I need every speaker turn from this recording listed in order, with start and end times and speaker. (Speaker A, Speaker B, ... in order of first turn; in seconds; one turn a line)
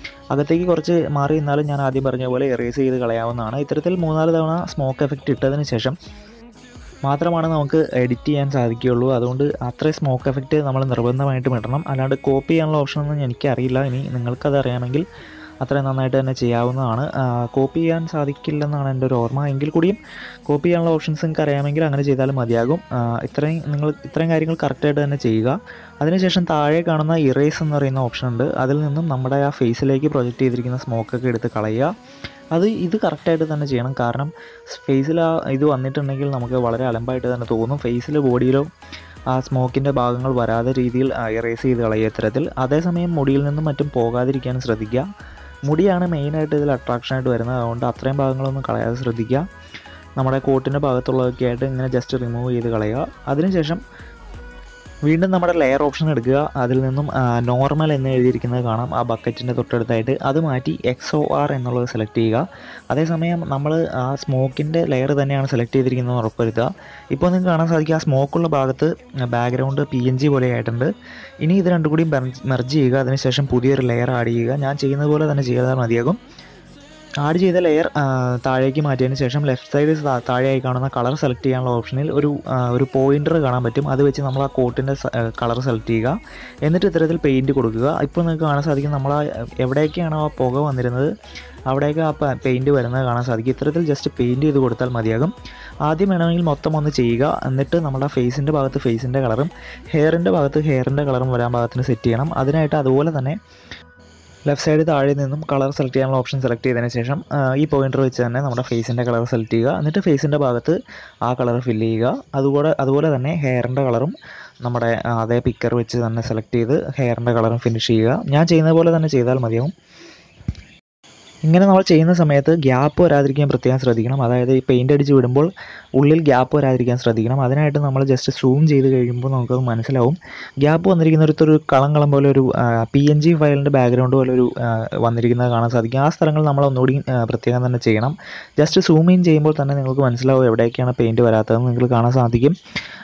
Speaker A: 0.3-6.0
Speaker A: 7.0-15.1
Speaker A: 15.6-20.0
Speaker A: 20.5-31.9
Speaker A: 32.5-38.7
Speaker A: 39.3-45.0
Speaker A: 45.7-49.4
Speaker A: 50.2-53.8
Speaker A: 55.1-70.9
Speaker A: 71.4-76.2
Speaker A: 77.2-91.1
Speaker A: 91.7-95.3
Speaker A: 95.9-103.4
Speaker A: 104.5-119.7
Speaker A: 121.5-134.5
Speaker A: 135.0-142.5